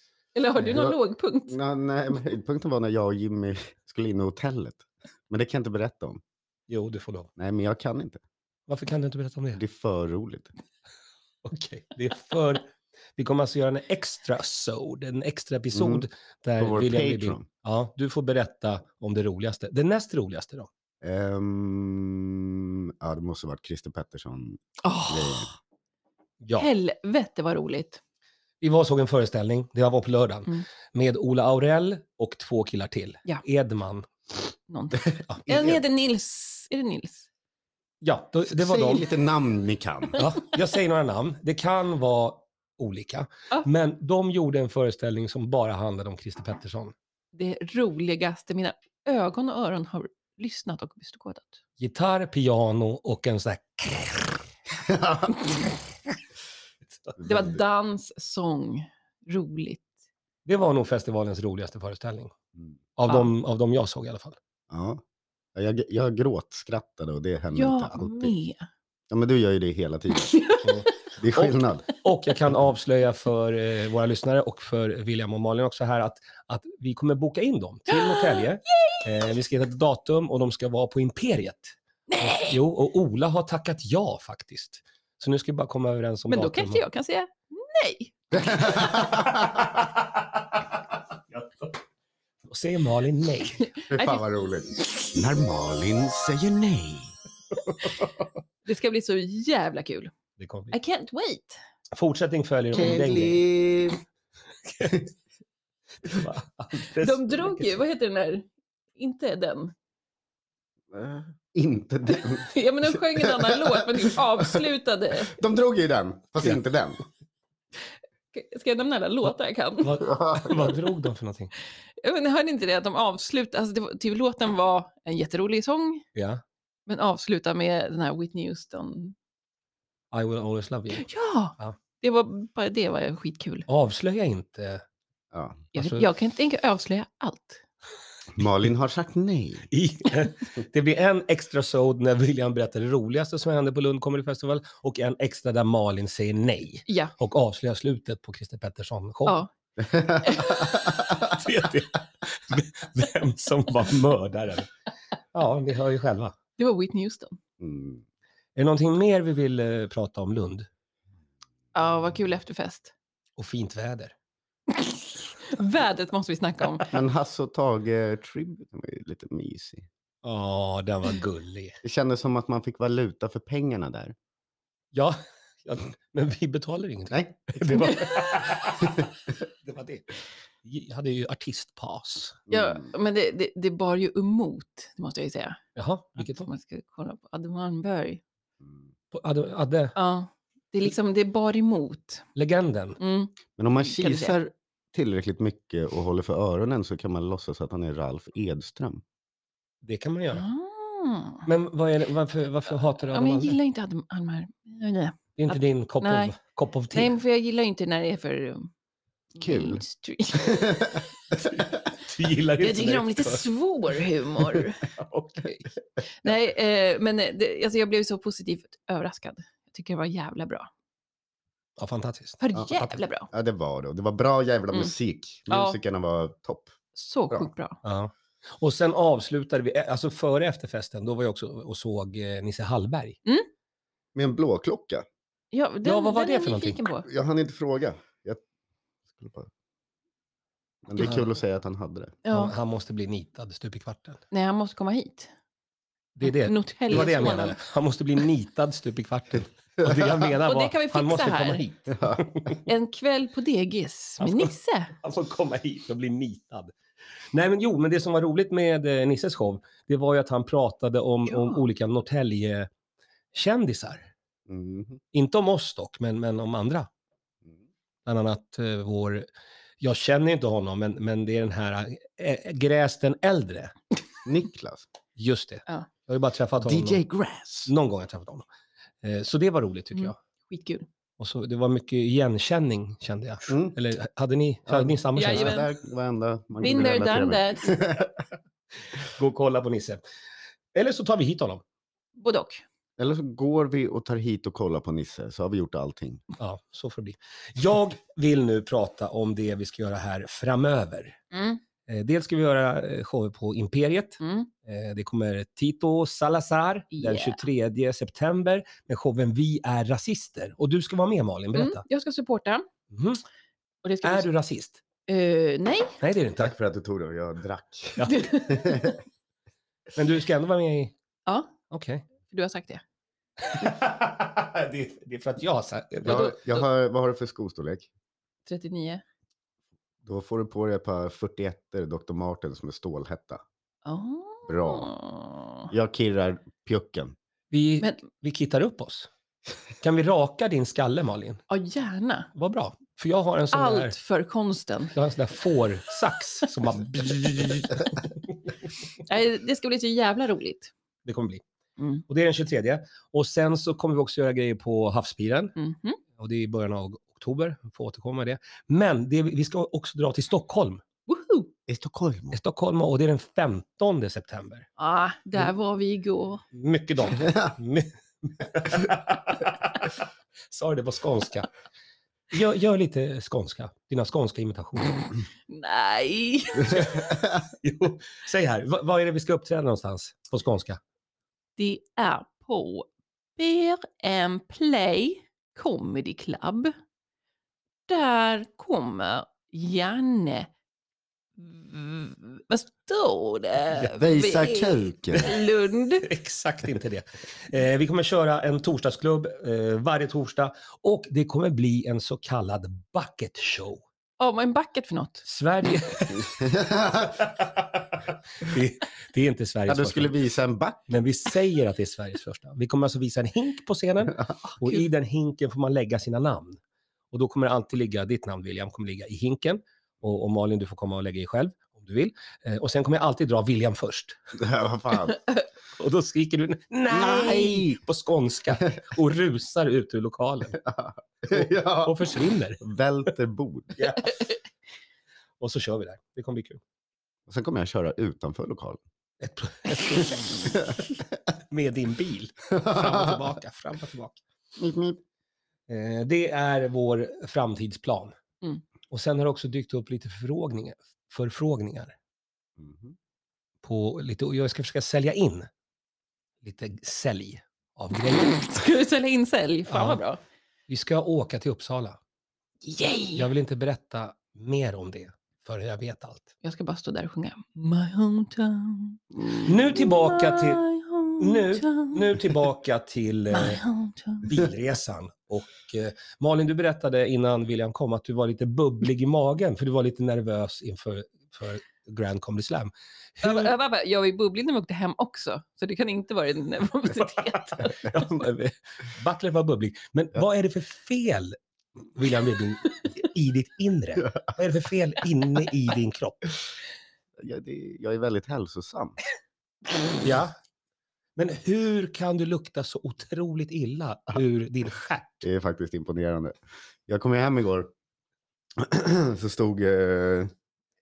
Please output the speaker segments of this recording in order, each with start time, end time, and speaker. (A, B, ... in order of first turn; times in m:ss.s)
0:00.4-0:01.6 A
0:00.6-0:01.0 B
0:01.5-0:06.2 B
0:06.7-0:07.3 C
0:07.4-0:08.2 B
0:08.7-0:09.6 C
0:09.6-0:10.5 B
0:11.4-0:20.7 C
0:15.7-0:16.1 B
0:16.6-0:17.4 B
0:21.0-0:25.5 B
0:24.8-0:25.5 A
0:26.4-0:26.7 C
0:26.6-0:28.0 A
0:28.6-0:34.1 C
0:34.7-0:37.3 A
0:38.0-0:39.0 C
0:38.5-0:40.2 B
0:40.2-0:46.9 C
0:47.3-0:51.6 A
0:51.8-0:54.5 C
0:54.8-0:55.4 B
0:56.9-0:57.2 C
0:57.2-0:57.5 B
0:57.2-0:59.9 A
1:00.5-1:02.3 C
1:03.0-1:04.4 C
1:04.7-1:05.0 B
1:05.6-1:08.3 B
1:07.5-1:08.6 A
1:09.1-1:10.5 B
1:10.2-1:10.7 A
1:10.6-1:26.8 C
1:11.2-1:11.8 B
1:17.9-1:19.0 A
1:22.1-1:22.6 A
1:26.3-1:28.3 A
1:28.3-1:29.7 B
1:28.5-1:31.8 C
1:32.5-1:33.7 C
1:33.8-1:34.3 A
1:33.9-1:37.1 B
1:38.6-1:40.1 A
1:40.4-1:40.8 C
1:40.7-1:41.6 A
1:42.0-1:43.4 C
1:42.7-1:44.0 B
1:44.7-1:45.1 C
1:46.0-1:47.8 C
1:47.0-1:49.7 A
1:50.9-1:54.5 B
1:52.1-1:55.4 A
1:55.3-1:57.0 B
1:58.3-2:00.0 A
1:59.8-2:01.5 C
2:00.0-2:00.8 B
2:02.0-2:06.1 A
2:06.2-2:06.4 C
2:06.9-2:09.2 A
2:10.1-2:11.1 C
2:11.0-2:13.7 A
2:13.7-2:14.8 C
2:15.3-2:15.6 B
2:15.7-2:17.6 A
2:15.8-2:16.1 C
2:18.3-2:19.7 B
2:19.7-2:29.4 C
2:26.9-2:27.1 A
2:29.8-2:31.3 B
2:30.2-2:30.8 A
2:30.5-2:34.7 C
2:35.3-2:36.4 C
2:36.6-2:37.4 A
2:37.6-2:38.0 B
2:38.6-2:40.7 C
2:41.7-2:42.9 A
2:43.4-2:44.1 C
2:44.7-2:46.9 A
2:46.9-2:49.9 B
2:50.2-2:51.8 C
2:51.8-2:54.2 B
2:54.9-3:00.1 C
2:57.1-2:57.9 B
2:57.8-2:58.2 A
3:00.6-3:02.4 C
3:02.5-3:02.9 B
3:02.5-3:05.6 A
3:05.8-3:06.5 C
3:06.2-3:08.2 A
3:09.1-3:10.0 C
3:10.0-3:12.3 A
3:12.4-3:13.0 C
3:13.0-3:14.4 A
3:13.6-3:19.0 B
3:19.8-3:20.5 C
3:20.3-3:21.5 A
3:21.5-3:23.6 C
3:23.0-3:26.3 A
3:25.4-3:27.1 C
3:26.9-3:28.7 A
3:29.4-3:31.0 A
3:29.4-3:29.8 B
3:30.3-3:31.0 B
3:31.3-3:33.5 C
3:32.6-3:34.9 A
3:34.4-3:35.7 C
3:36.2-3:40.7 A
3:41.8-3:42.4 C
3:42.4-3:43.3 A
3:43.3-3:46.8 B
3:45.5-3:45.8 A
3:47.0-3:47.8 A
3:47.8-3:53.2 C
3:54.2-3:55.1 B
3:55.5-3:57.1 A
3:55.8-3:56.8 C
3:57.0-3:58.4 B
3:59.1-3:59.5 B
4:00.9-4:02.2 B
4:01.0-4:01.3 C
4:02.3-4:02.5 A
4:02.3-4:04.2 C
4:04.3-4:05.3 A
4:06.2-4:12.6 C
4:06.2-4:07.6 A
4:10.5-4:11.6 A
4:12.0-4:12.3 B
4:12.7-4:14.9 A
4:14.2-4:16.8 C
4:17.3-4:22.7 C
4:21.3-4:21.6 A
4:23.3-4:24.1 C
4:24.5-4:25.0 B
4:25.1-4:26.9 C
4:28.1-4:29.3 C
4:29.8-4:33.7 C
4:34.2-4:34.9 B
4:35.2-4:37.0 C
4:36.6-4:37.7 B
4:37.7-4:38.5 C
4:39.0-4:40.2 C
4:39.9-4:40.9 A
4:41.2-4:45.6 C
4:43.5-4:43.8 B
4:44.7-4:48.2 B
4:45.2-4:45.7 A
4:46.6-4:47.8 A
4:49.0-4:50.0 C
4:50.7-4:51.6 C
4:52.2-4:52.6 A
4:53.0-4:56.2 B
4:56.4-5:01.2 C
5:01.3-5:01.6 A
5:01.9-5:11.8 C
5:04.2-5:04.5 A
5:06.9-5:07.4 A
5:11.6-5:12.7 A
5:12.9-5:13.2 C
5:13.8-5:14.3 A
5:14.0-5:14.8 C
5:15.1-5:16.0 A
5:16.0-5:16.5 C
5:16.4-5:19.0 B
5:18.0-5:18.3 C
5:18.1-5:19.0 A
5:20.0-5:20.9 C
5:21.3-5:21.5 A
5:21.7-5:22.0 C
5:22.3-5:22.8 A
5:23.4-5:26.4 C
5:26.0-5:27.9 B
5:26.1-5:26.3 A
5:28.5-5:29.0 A
5:30.0-5:33.4 B
5:33.8-5:35.7 A
5:34.5-5:34.9 B
5:35.7-5:37.2 B
5:37.5-5:39.1 C
5:39.8-5:41.4 C
5:41.5-5:42.3 A
5:42.4-5:44.0 C
5:43.5-5:45.0 A
5:44.9-5:48.5 C
5:49.1-5:50.7 A
5:51.0-5:51.4 C
5:51.8-5:52.0 A
5:52.1-5:55.5 C
5:55.6-5:56.0 A
5:56.2-6:00.8 C
6:01.1-6:01.5 A
6:01.7-6:02.4 B
6:02.3-6:04.7 C
6:04.8-6:06.4 A
6:06.5-6:11.5 C
6:12.3-6:15.0 C
6:15.5-6:17.0 A
6:16.6-6:20.8 C
6:21.6-6:26.7 A
6:27.9-6:30.5 A
6:31.4-6:36.1 A
6:33.8-6:35.4 B
6:36.0-6:43.8 C
6:44.2-6:45.2 A
6:45.2-6:50.2 C
6:46.4-6:47.1 B
6:49.7-6:50.8 B
6:50.9-7:04.2 C
7:04.4-7:05.2 B
7:05.8-7:10.6 C
7:06.9-7:07.8 B
7:10.6-7:13.8 B
7:11.3-7:12.6 C
7:13.8-7:14.2 C
7:15.4-7:16.6 C
7:17.3-7:18.8 B
7:19.2-7:20.8 C
7:20.4-7:20.8 B
7:21.5-7:24.2 C
7:22.6-7:23.2 B
7:24.6-7:25.0 B
7:25.7-7:28.2 C
7:28.9-7:32.0 C
7:32.6-7:33.0 B
7:33.6-7:35.5 C
7:36.4-7:38.4 C
7:38.3-7:40.2 A
7:39.7-7:40.0 C
7:40.7-7:42.0 C
7:42.6-7:43.3 A
7:43.2-7:46.3 C
7:46.4-7:52.0 A
7:49.4-7:50.6 C
7:51.2-7:53.6 C
7:53.3-7:54.3 A
7:54.2-8:03.5 C
8:03.2-8:08.1 A
8:07.4-8:11.4 C
8:11.9-8:16.3 C
8:17.2-8:19.0 B
8:20.0-8:20.4 C
8:21.2-8:25.3 C
8:25.2-8:27.7 B
8:28.6-8:30.3 B